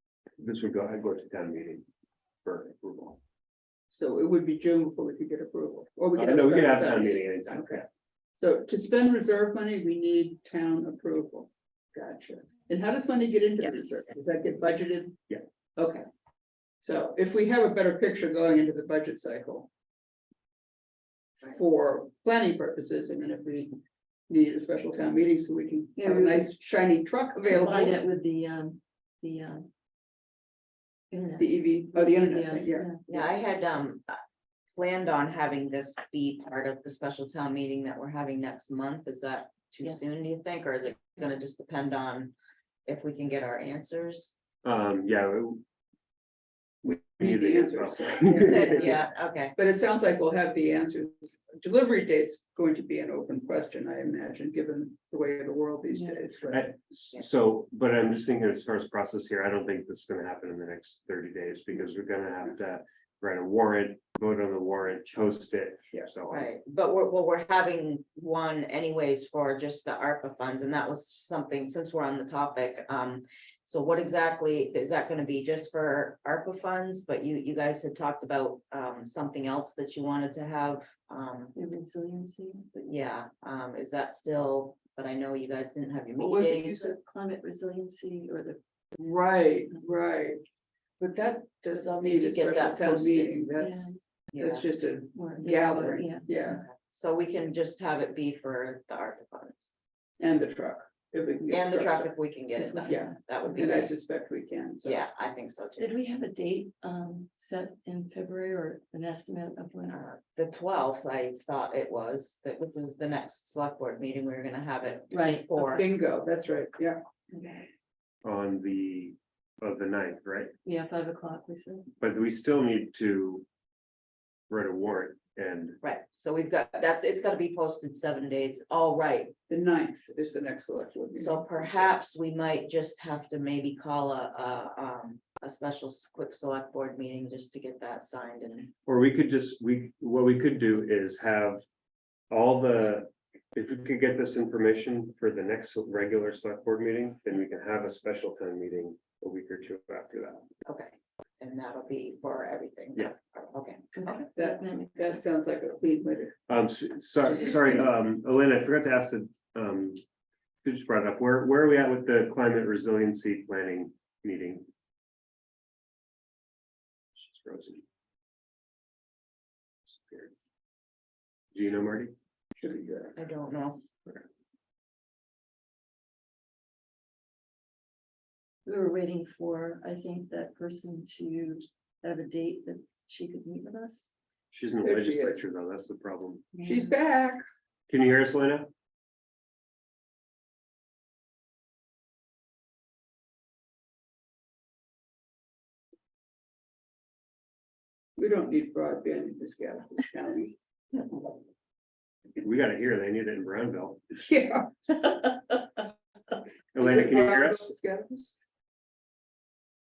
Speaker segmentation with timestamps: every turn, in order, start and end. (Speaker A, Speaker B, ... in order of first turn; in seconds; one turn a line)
Speaker A: 0.4-1.8
Speaker A: 2.4-3.2
Speaker B: 3.9-7.8
Speaker A: 6.1-7.9
Speaker B: 8.4-15.2
Speaker B: 15.8-16.0
Speaker B: 16.8-19.7
Speaker B: 21.4-23.8
Speaker B: 24.3-28.0
Speaker C: 26.0-26.5
Speaker C: 27.4-29.7
Speaker C: 31.1-33.0
Speaker B: 31.4-32.9
Speaker D: 33.1-34.2
Speaker D: 34.7-42.3
Speaker D: 42.9-44.3
Speaker A: 44.6-45.6
Speaker B: 46.8-49.0
Speaker A: 47.2-49.0
Speaker D: 48.5-49.5
Speaker B: 49.6-56.6
Speaker C: 55.9-56.2
Speaker A: 56.5-66.5
Speaker D: 66.3-81.5
Speaker C: 81.5-82.9
Speaker D: 82.8-86.8
Speaker B: 86.2-86.9
Speaker C: 86.5-88.6
Speaker B: 89.0-90.4
Speaker B: 91.0-96.6
Speaker D: 92.0-93.3
Speaker C: 93.6-93.9
Speaker D: 94.3-94.7
Speaker C: 95.1-96.6
Speaker D: 96.5-99.7
Speaker B: 100.2-102.1
Speaker D: 101.5-103.9
Speaker C: 102.5-103.2
Speaker B: 102.9-105.0
Speaker D: 104.8-106.0
Speaker C: 105.8-110.0
Speaker D: 109.9-115.8
Speaker C: 115.1-115.4
Speaker B: 115.5-117.0
Speaker C: 117.3-117.7
Speaker A: 118.2-120.5
Speaker C: 120.6-121.9
Speaker A: 122.0-123.5
Speaker A: 124.5-125.8
Speaker D: 125.8-129.3
Speaker B: 129.5-131.9
Speaker D: 131.2-138.7
Speaker A: 138.8-141.6
Speaker A: 142.3-150.5
Speaker D: 150.7-154.3
Speaker C: 153.9-155.2
Speaker B: 154.3-156.3
Speaker A: 156.5-160.0
Speaker A: 160.6-164.7
Speaker A: 167.1-167.8
Speaker A: 169.8-170.3
Speaker A: 171.5-172.1
Speaker B: 172.5-173.1
Speaker D: 173.2-173.8
Speaker C: 178.6-184.1
Speaker A: 184.5-186.5
Speaker B: 184.8-185.4
Speaker B: 186.6-187.4
Speaker A: 187.9-188.7
Speaker B: 198.2-201.0
Speaker A: 202.4-204.2
Speaker B: 204.2-205.3
Speaker A: 206.7-207.7
Speaker B: 206.7-208.3